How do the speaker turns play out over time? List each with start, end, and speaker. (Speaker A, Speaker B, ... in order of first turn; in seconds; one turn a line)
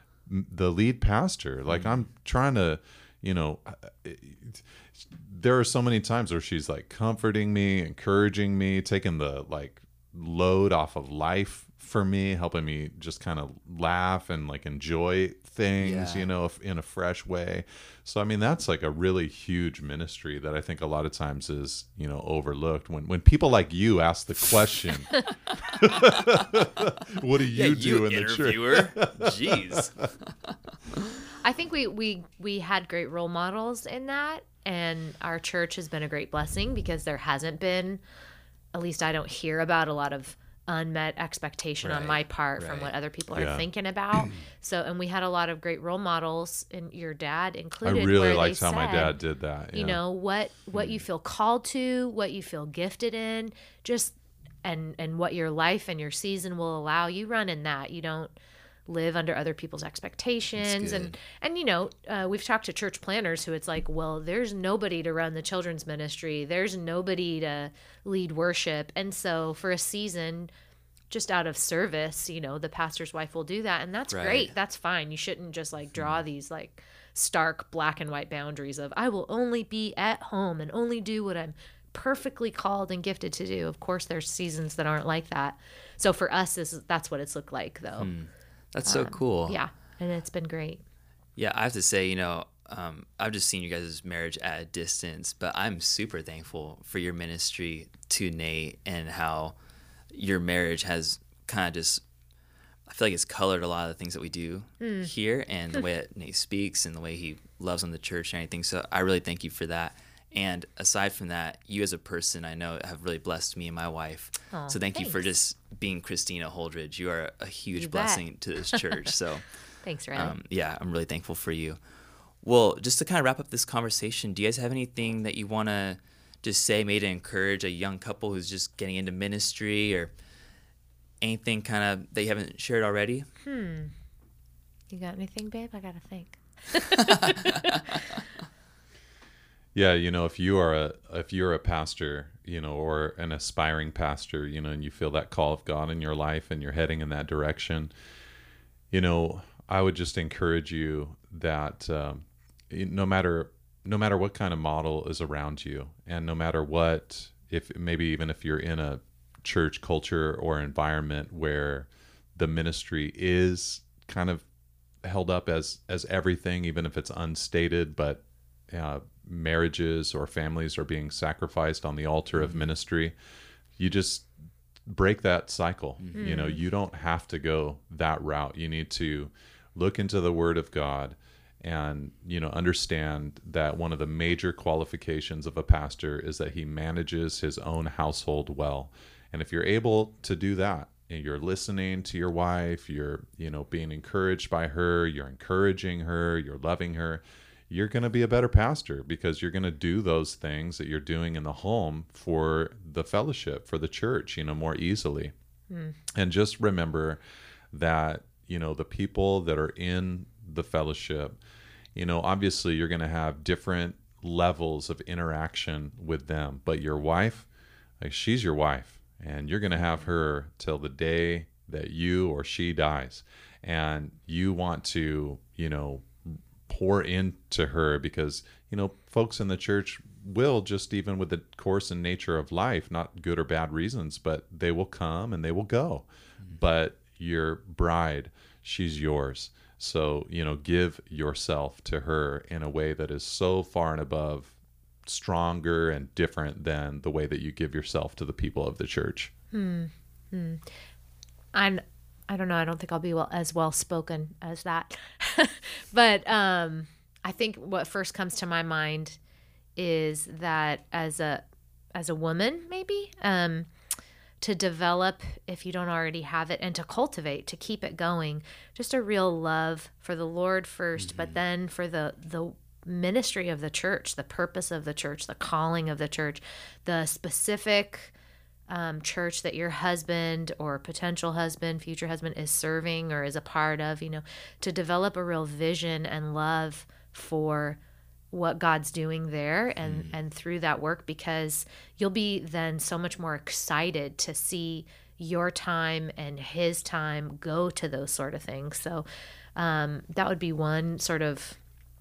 Speaker A: 0.3-25.2
Speaker B: 1.7-2.0
Speaker B: 15.8-16.3
Speaker A: 25.7-29.8
Speaker B: 25.8-26.2
Speaker B: 27.5-30.7
Speaker C: 31.4-38.0
Speaker C: 38.7-49.2
Speaker B: 41.8-43.0
Speaker A: 43.3-43.7
Speaker A: 47.8-50.0
Speaker C: 49.7-58.3
Speaker B: 50.7-51.0
Speaker C: 58.9-70.5
Speaker B: 60.5-61.2
Speaker C: 71.1-88.1
Speaker B: 74.1-74.5
Speaker B: 88.0-89.6
Speaker C: 88.9-90.8
Speaker B: 91.4-99.5
Speaker B: 100.1-102.0
Speaker B: 102.9-119.6
Speaker C: 104.8-105.1
Speaker C: 114.5-115.3
Speaker C: 117.7-119.2
Speaker C: 119.8-120.4
Speaker B: 120.1-121.8
Speaker B: 122.4-130.1
Speaker B: 131.2-133.3
Speaker C: 133.4-133.9
Speaker C: 134.9-138.0
Speaker B: 137.0-138.2
Speaker A: 139.7-147.9
Speaker A: 148.9-164.4
Speaker A: 165.0-173.2
Speaker B: 172.4-172.6
Speaker A: 173.8-174.3
Speaker A: 174.8-205.3
Speaker B: 176.0-176.3
Speaker C: 176.2-176.6
Speaker C: 205.7-206.0
Speaker A: 206.1-207.2
Speaker A: 207.7-211.4
Speaker A: 211.9-217.5
Speaker A: 218.0-249.3
Speaker C: 249.5-250.6
Speaker C: 251.5-259.2
Speaker C: 259.8-261.4
Speaker C: 261.9-263.7
Speaker C: 264.4-278.1
Speaker B: 271.0-271.4
Speaker C: 278.7-287.8
Speaker C: 288.3-301.6
Speaker B: 289.8-290.1